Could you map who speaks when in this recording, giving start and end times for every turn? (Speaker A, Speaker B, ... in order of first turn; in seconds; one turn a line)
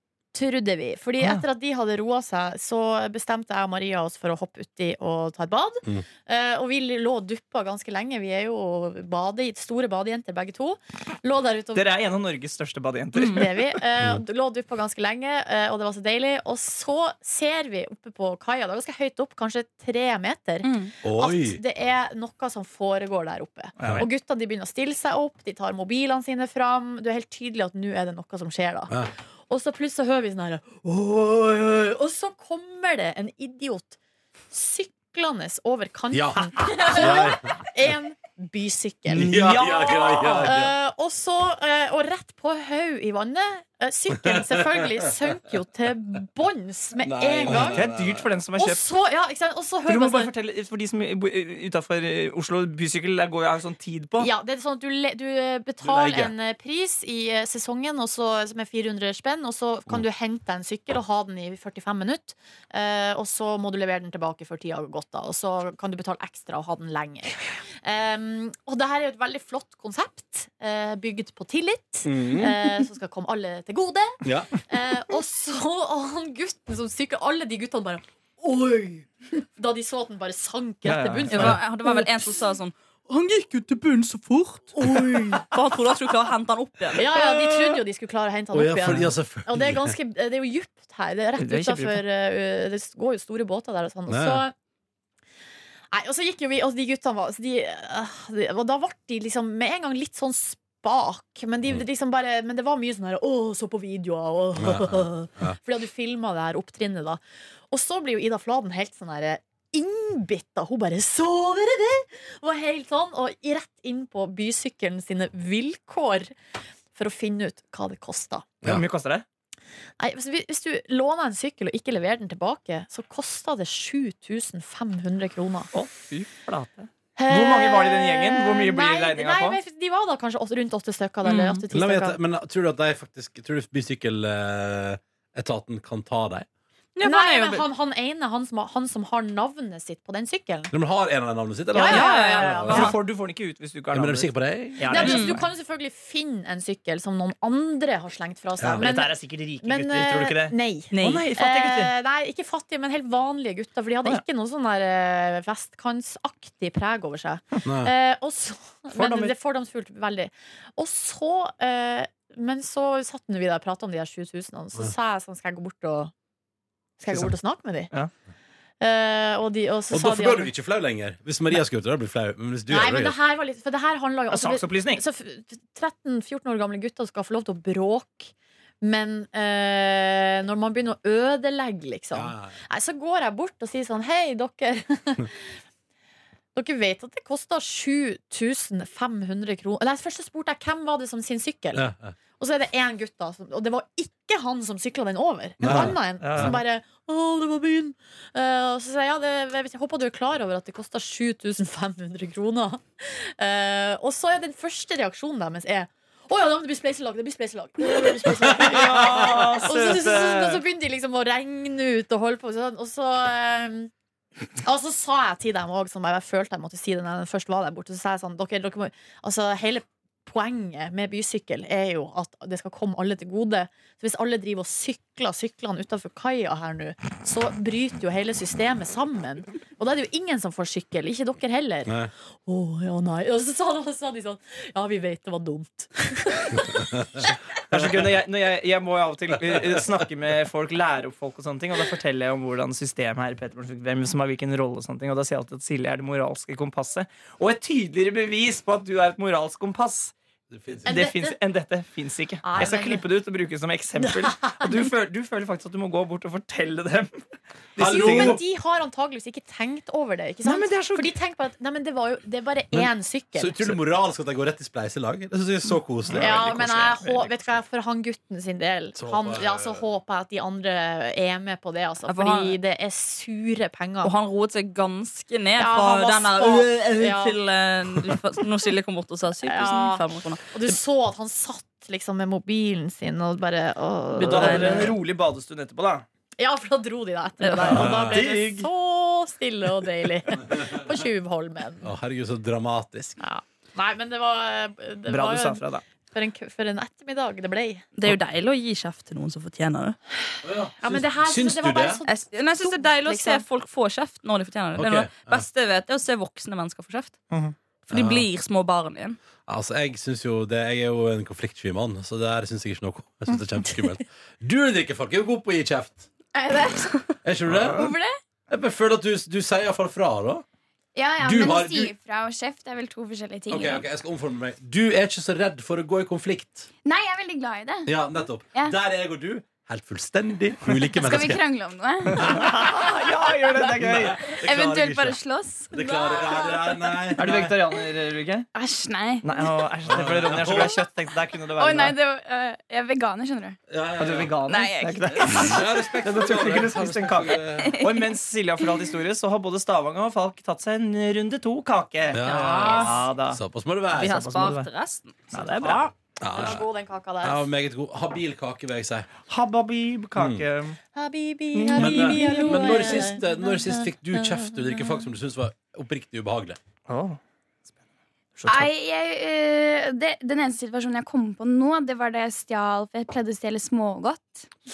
Speaker A: 0.3-11.9
Speaker B: 1.2-1.4
Speaker B: 11.7-13.8
Speaker C: 13.2-13.4
Speaker A: 13.3-28.9
Speaker D: 21.0-21.6
Speaker B: 23.8-24.1
Speaker D: 23.8-24.1
Speaker A: 29.5-34.0
Speaker A: 34.5-39.3
Speaker D: 36.1-37.6
Speaker B: 39.1-40.6
Speaker D: 39.1-40.7
Speaker A: 40.4-47.8
Speaker D: 44.3-45.0
Speaker D: 47.0-48.2
Speaker B: 47.4-48.9
Speaker A: 48.6-50.3
Speaker B: 49.9-54.3
Speaker A: 54.2-81.6
Speaker D: 55.8-56.3
Speaker D: 72.0-72.8
Speaker D: 74.2-74.5
Speaker B: 80.8-81.6
Speaker C: 81.3-87.0
Speaker A: 84.8-85.4
Speaker A: 86.9-94.5
Speaker D: 87.1-87.7
Speaker D: 88.5-90.0
Speaker B: 91.4-92.0
Speaker D: 94.1-94.4
Speaker A: 95.9-116.3
Speaker D: 104.5-105.6
Speaker A: 116.9-118.5
Speaker B: 118.6-119.2
Speaker A: 120.0-125.7
Speaker B: 125.7-129.6
Speaker A: 127.2-132.2
Speaker C: 131.2-131.6
Speaker D: 131.7-136.5
Speaker C: 136.9-137.6
Speaker A: 137.0-140.7
Speaker D: 140.7-142.9
Speaker A: 141.7-142.9
Speaker C: 141.9-143.0
Speaker B: 141.9-145.5
Speaker D: 143.9-145.1
Speaker A: 144.9-166.1
Speaker C: 144.9-145.4
Speaker D: 148.6-148.8
Speaker B: 148.7-151.9
Speaker C: 150.9-151.2
Speaker D: 157.6-157.9
Speaker B: 158.9-159.3
Speaker A: 167.0-167.9
Speaker A: 168.8-170.5
Speaker D: 169.9-173.2
Speaker A: 172.7-185.4
Speaker B: 174.3-175.0
Speaker D: 182.1-182.6
Speaker A: 186.5-191.8
Speaker D: 191.7-192.1
Speaker A: 192.4-213.9
Speaker D: 195.6-196.6
Speaker B: 195.6-196.6
Speaker B: 207.8-210.7
Speaker D: 208.3-209.1
Speaker A: 214.6-236.8
Speaker D: 231.8-232.1
Speaker D: 236.7-236.9
Speaker B: 237.7-250.1
Speaker D: 250.5-251.0
Speaker A: 250.8-251.3
Speaker B: 250.8-257.2
Speaker A: 252.4-253.0
Speaker B: 257.8-258.4
Speaker D: 257.8-258.4
Speaker A: 257.8-263.7
Speaker B: 260.4-261.1
Speaker D: 262.7-267.6
Speaker B: 266.1-266.4
Speaker A: 266.2-274.1
Speaker D: 268.9-269.8
Speaker C: 272.1-272.6
Speaker C: 274.0-280.8
Speaker A: 275.6-277.4
Speaker A: 279.4-284.9
Speaker B: 284.1-286.0
Speaker C: 284.3-284.9
Speaker A: 286.4-291.9
Speaker C: 287.4-287.9
Speaker B: 287.5-288.7
Speaker D: 287.7-288.2
Speaker D: 291.8-293.2
Speaker A: 293.2-297.9
Speaker B: 295.1-295.8
Speaker C: 297.9-300.0
Speaker D: 300.4-302.0
Speaker A: 300.7-303.4
Speaker C: 302.1-307.1
Speaker D: 304.8-305.4
Speaker B: 307.3-307.6
Speaker C: 307.9-309.2
Speaker D: 307.9-308.3
Speaker D: 309.5-316.1
Speaker E: 316.3-317.2
Speaker D: 317.2-317.9
Speaker B: 317.5-317.9
Speaker E: 317.8-318.1
Speaker D: 318.5-320.4
Speaker E: 320.9-323.9
Speaker D: 321.2-321.9
Speaker D: 323.5-326.7
Speaker E: 326.8-327.9
Speaker D: 327.9-331.4
Speaker E: 330.9-332.6
Speaker B: 332.1-334.3
Speaker E: 333.6-337.1
Speaker D: 333.8-335.2
Speaker D: 335.7-337.6
Speaker B: 337.2-338.5
Speaker E: 338.5-339.7
Speaker B: 339.2-342.0
Speaker D: 339.9-340.8
Speaker E: 340.6-343.6
Speaker D: 343.7-344.4
Speaker B: 344.0-353.4
Speaker E: 344.5-345.5
Speaker D: 345.2-347.8
Speaker E: 347.6-348.9
Speaker D: 352.1-354.2
Speaker C: 352.2-353.0
Speaker C: 353.9-355.9
Speaker B: 354.0-354.7
Speaker B: 355.3-355.9
Speaker D: 356.2-356.6
Speaker A: 356.3-357.5
Speaker D: 357.2-359.1
Speaker B: 359.3-360.8
Speaker D: 360.1-360.4
Speaker A: 360.9-363.2
Speaker B: 361.5-363.1
Speaker D: 361.7-366.6
Speaker B: 366.9-367.2
Speaker B: 368.3-368.7
Speaker E: 368.4-374.5